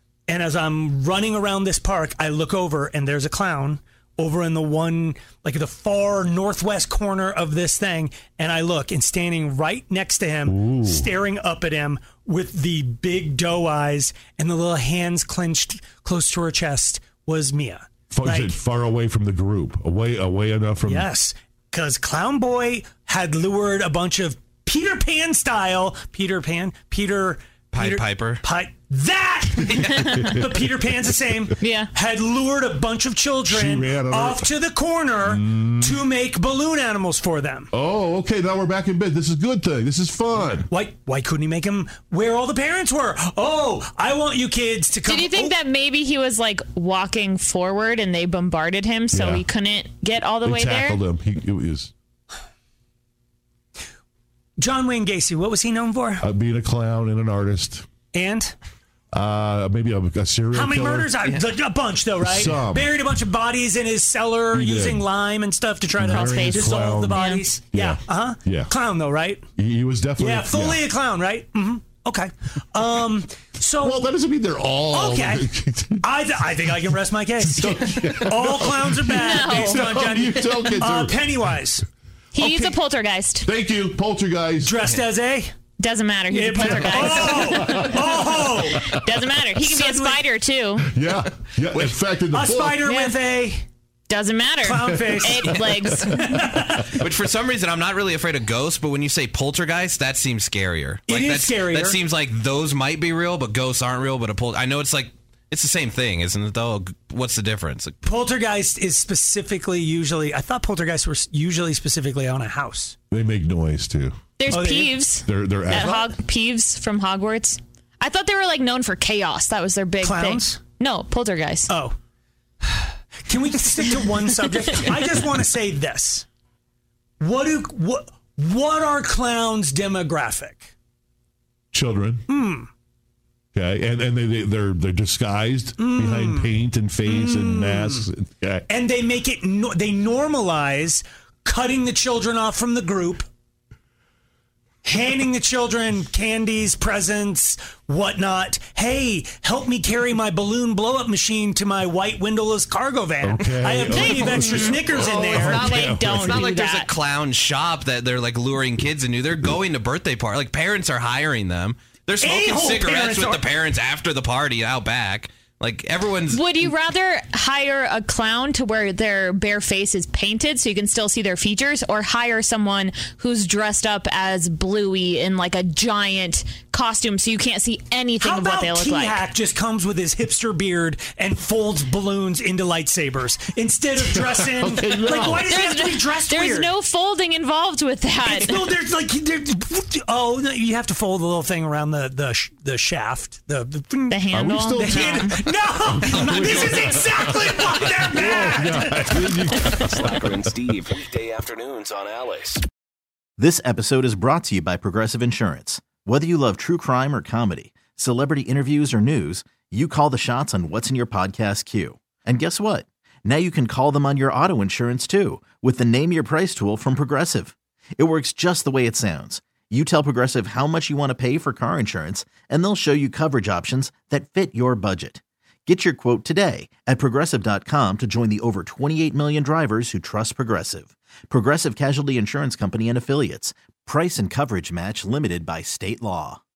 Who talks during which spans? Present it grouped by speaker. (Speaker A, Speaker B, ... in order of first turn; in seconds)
Speaker A: 0.3-18.6, 20.8-37.7, 40.7-45.6, 54.6-56.2, 58.1-58.5, 60.5-69.4, 70.2-74.0, 74.9-75.5, 76.0-81.8, 82.4-82.7, 84.6-85.5, 86.3-88.9, 89.5-90.3, 92.3-93.7, 94.6-97.0, 101.1-102.0, 108.0-113.0, 114.5-115.0, 115.7-116.1, 120.0-120.6, 121.7-121.9, 122.6-126.3, 127.2-130.7, 132.3-132.7, 135.8-136.5, 137.1-138.1, 138.7-143.2, 144.8-155.8, 162.2-163.5, 178.2-186.8, 188.2-199.5
Speaker B: 10.5-11.1, 18.1-21.1, 30.1-30.7, 33.5-34.5, 35.2-36.0, 37.7-40.7, 49.1-49.5, 50.4-51.9, 56.2-57.9, 59.1-61.1, 62.2-62.9, 64.5-65.1, 66.0-68.7, 69.6-70.8, 73.8-76.1, 77.4-81.3, 83.4-84.8, 87.5-89.2, 90.8-92.8, 113.1-114.2, 115.2-116.0, 131.7-132.2, 133.5-138.7, 153.2-156.4, 184.1-185.4, 194.3-195.4, 195.9-200.7
Speaker C: 27.7-28.4, 29.6-30.2, 95.4-95.8, 96.7-108.0, 154.9-166.7
Speaker D: 31.6-31.9, 45.1-51.0, 66.0-67.4, 79.1-79.8, 82.3-83.5, 85.8-88.1, 88.8-90.9, 92.8-93.2, 94.1-96.4, 114.4-121.7, 153.9-156.9, 166.3-179.2, 185.5-188.7, 194.1-195.3
Speaker E: 199.8-202.6
Speaker F: 203.4-236.4